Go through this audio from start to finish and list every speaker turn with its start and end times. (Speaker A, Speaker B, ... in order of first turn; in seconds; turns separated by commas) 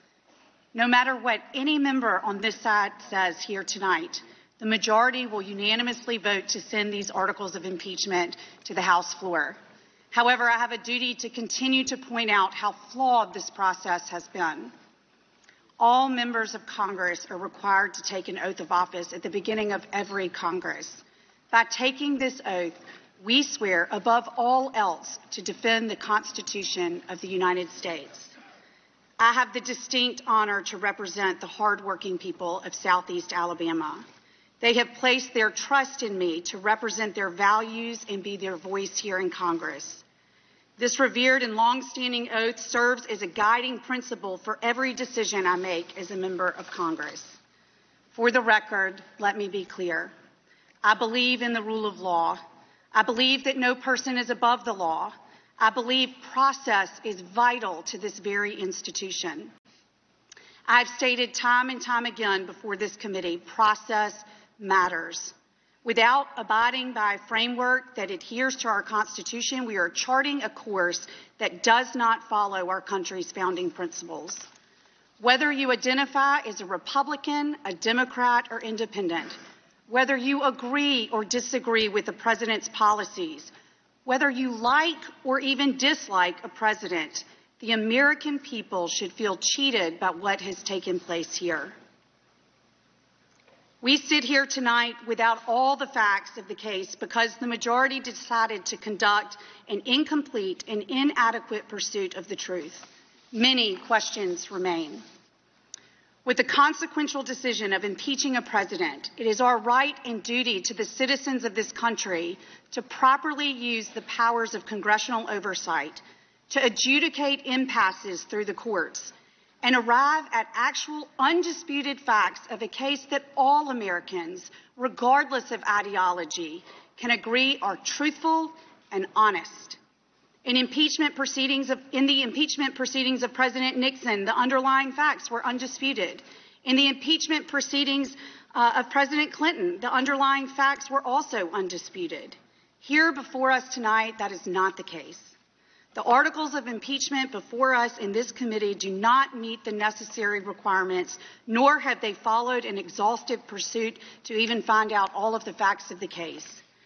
Speaker A: 0.7-9.6, Speaker A: 10.1-14.7, Speaker A: 15.8-28.3, Speaker A: 29.2-34.0, Speaker A: 34.6-40.0, Speaker A: 40.8-47.4, Speaker A: 48.1-50.1, Speaker A: 50.8-52.4, Speaker A: 52.9-59.5, Speaker A: 60.7-65.3, Speaker A: 65.8-74.5, Speaker A: 75.2-83.5, Speaker A: 84.0-91.7, Speaker A: 93.8-105.0, Speaker A: 106.2-129.8, Speaker A: 130.4-145.3, Speaker A: 145.9-156.6